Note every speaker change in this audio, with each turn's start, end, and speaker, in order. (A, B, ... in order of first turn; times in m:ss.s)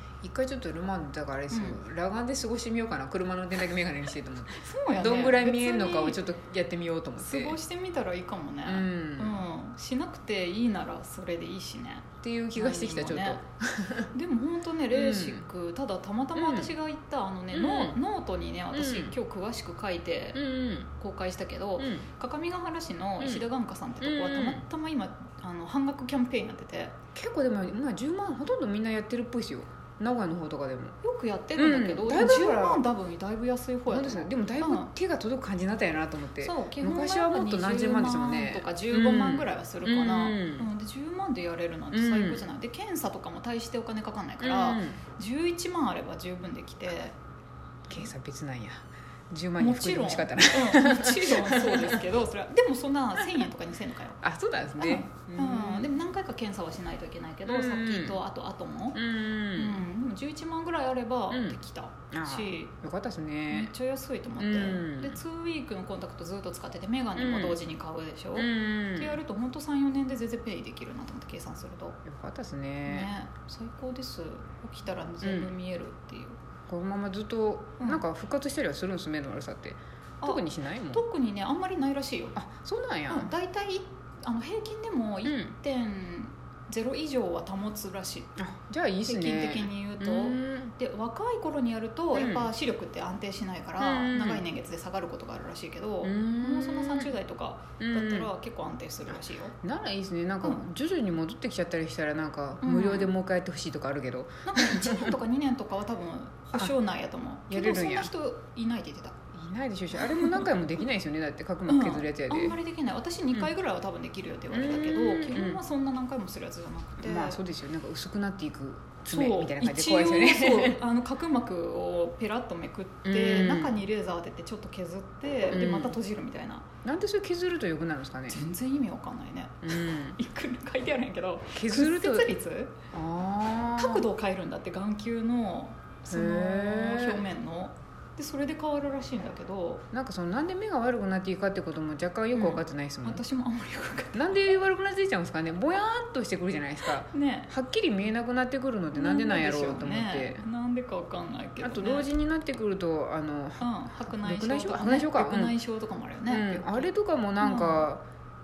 0:00.2-0:07.6 A
0:01.5-0:01.8 B
0:04.5-0:06.2 B
0:07.2-0:13.4 B
0:08.6-0:09.4 A
0:12.2-0:14.1 A
0:14.1-0:26.9 B
0:14.9-0:15.4 A
0:16.4-0:16.7 A
0:17.5-0:18.0 A
0:18.7-0:19.2 A
0:20.3-0:20.9 A
0:21.8-0:22.1 A
0:23.2-0:23.4 A
0:24.0-0:24.6 A
0:27.1-0:31.0 A
0:31.0-0:34.9 B
0:31.6-0:32.8 A
0:33.9-0:40.7 A
0:36.4-0:47.1 B
0:41.9-0:42.4 A
0:44.4-0:45.0 A
0:47.9-0:52.0 A
0:49.6-0:54.2 B
0:54.2-0:55.9 A
0:54.8-0:59.0 B
0:57.4-0:58.2 A
0:58.9-0:59.8 A
0:59.5-1:02.7 B
1:01.3-1:01.6 A
1:02.1-1:03.7 A
1:03.5-1:12.0 B
1:04.4-1:05.2 A
1:07.2-1:07.6 A
1:08.3-1:09.2 A
1:12.0-1:13.1 A
1:12.8-1:16.4 B
1:15.2-1:15.5 A
1:16.7-1:21.0 A
1:20.2-1:22.4 B
1:22.3-1:23.3 A
1:23.1-1:28.3 B
1:25.2-1:25.5 A
1:28.4-1:30.7 A
1:29.0-1:39.5 B
1:32.1-1:32.5 A
1:33.8-1:34.4 A
1:36.0-1:37.1 A
1:37.8-1:38.3 A
1:39.6-1:45.1 A
1:42.6-1:43.1 B
1:44.4-1:49.1 B
1:47.5-1:48.1 A
1:49.3-1:52.6 A
1:50.0-1:50.5 B
1:51.7-1:57.4 B
1:54.5-1:55.6 A
1:57.0-2:00.8 A
1:59.1-2:06.6 B
2:03.0-2:03.8 A
2:05.5-2:06.0 A
2:06.8-2:08.4 A
2:08.3-2:12.7 B
2:09.6-2:10.2 A
2:11.5-2:12.3 A
2:12.9-2:14.0 A
2:13.7-2:19.8 B
2:16.1-2:17.2 A
2:19.9-2:23.2 A
2:22.3-2:24.2 B
2:24.1-2:30.4 A
2:27.1-2:27.5 B
2:28.9-2:32.1 B
2:31.6-2:35.6 A
2:33.6-2:36.9 B
2:36.3-2:38.0 A
2:37.4-2:37.9 B